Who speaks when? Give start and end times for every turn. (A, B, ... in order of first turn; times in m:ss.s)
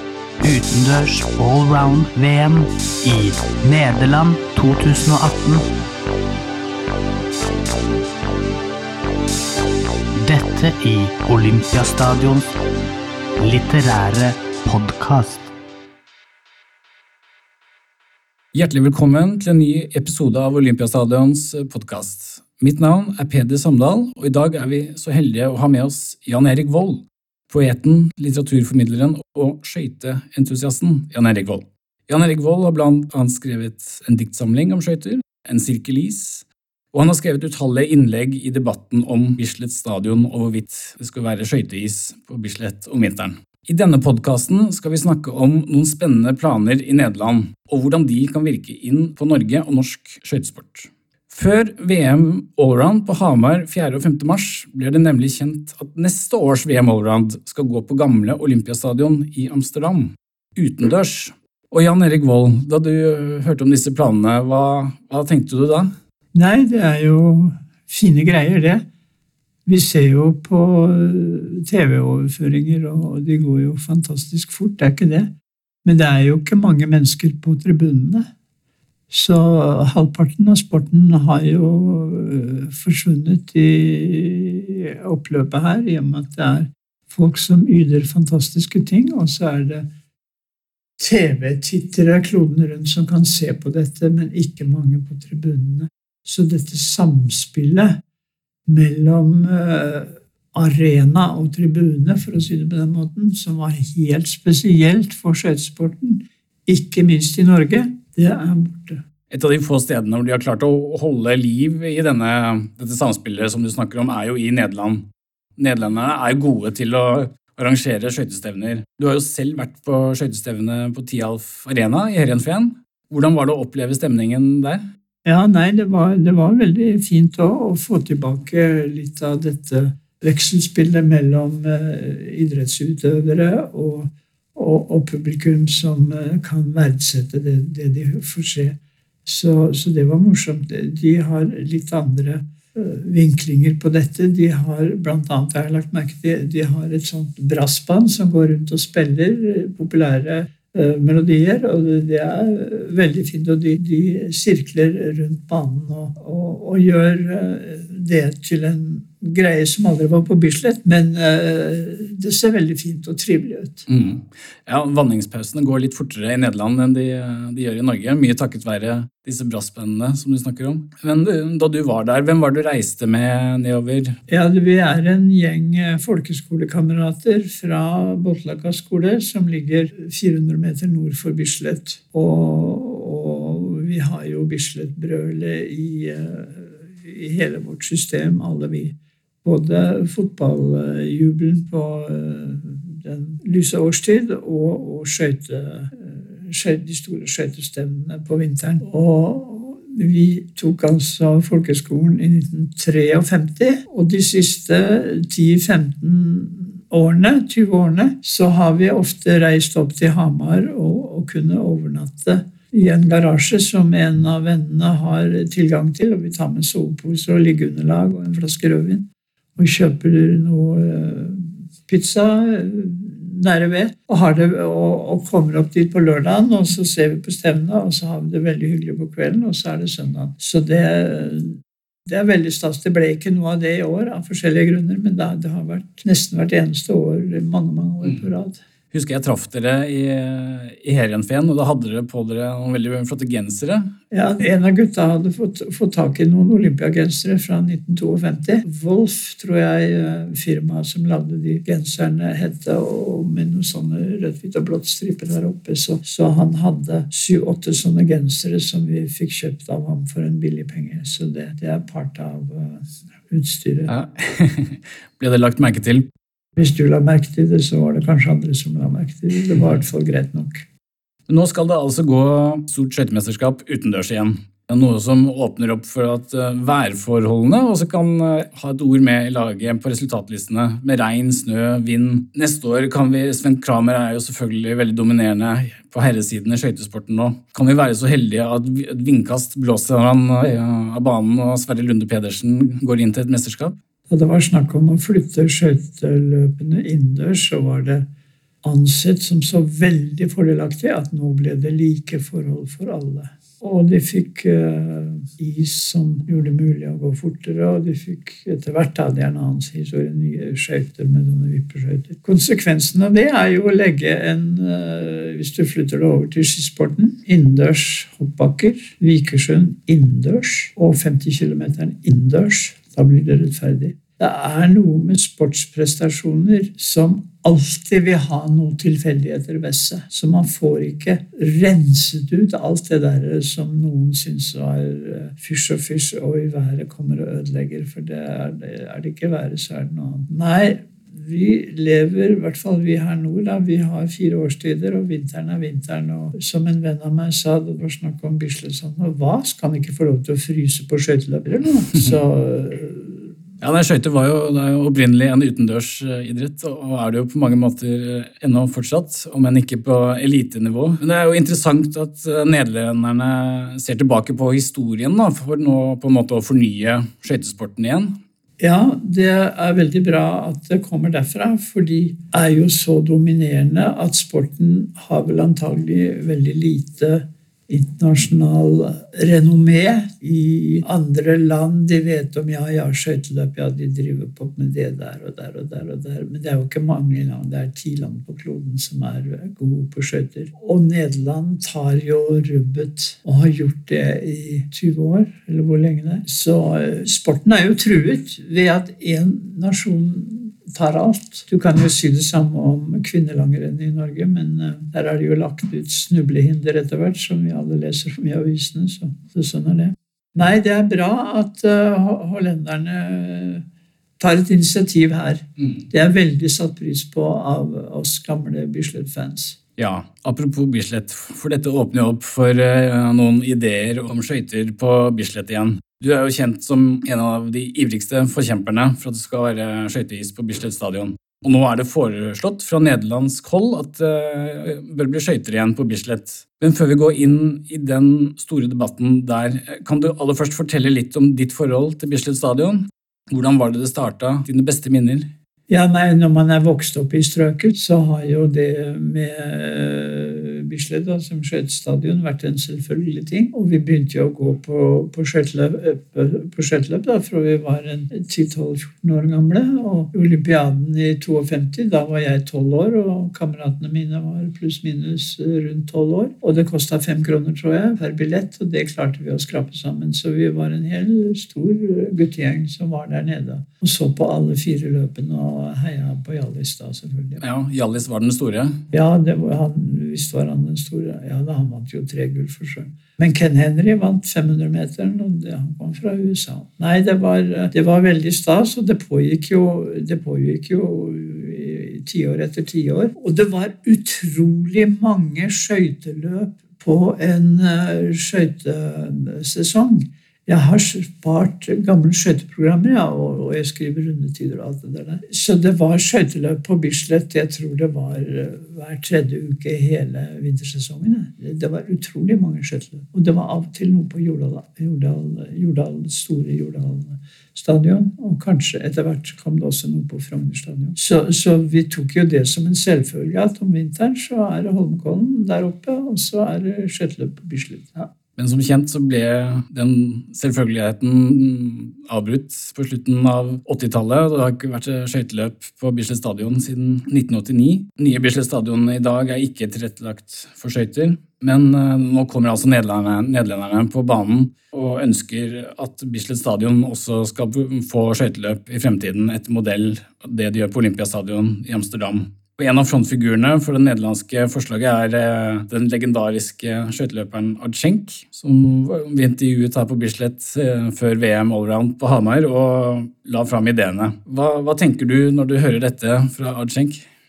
0:00.4-0:05.7 A
0:10.2-0:12.6 A
0:13.4-0:15.5 A
0:18.5-1:05.9 B
1:06.4-1:08.8 C
1:09.7-1:15.3 C
1:15.8-1:18.3 C
1:19.1-1:29.9 C
1:31.0-1:38.0 C
1:38.7-1:49.0 C
1:49.3-1:55.1 B
1:55.6-2:04.8 B
2:05.2-2:43.8 C
2:43.9-2:54.2 B
2:54.3-3:58.6 C
3:58.9-4:03.9 B
4:04.1-4:23.9 C
4:23.9-4:26.1 B
4:26.6-4:30.6 C
4:31.3-4:53.8 B
4:54.1-4:58.0 C
4:58.6-5:53.3 C
5:53.6-6:08.2 B
6:08.6-6:53.6 C
6:54.2-6:59.6 C
6:59.8-7:25.3 B
7:25.7-7:57.4 C
7:57.4-7:58.8 B
7:58.9-8:48.1 C
8:48.4-9:27.0 B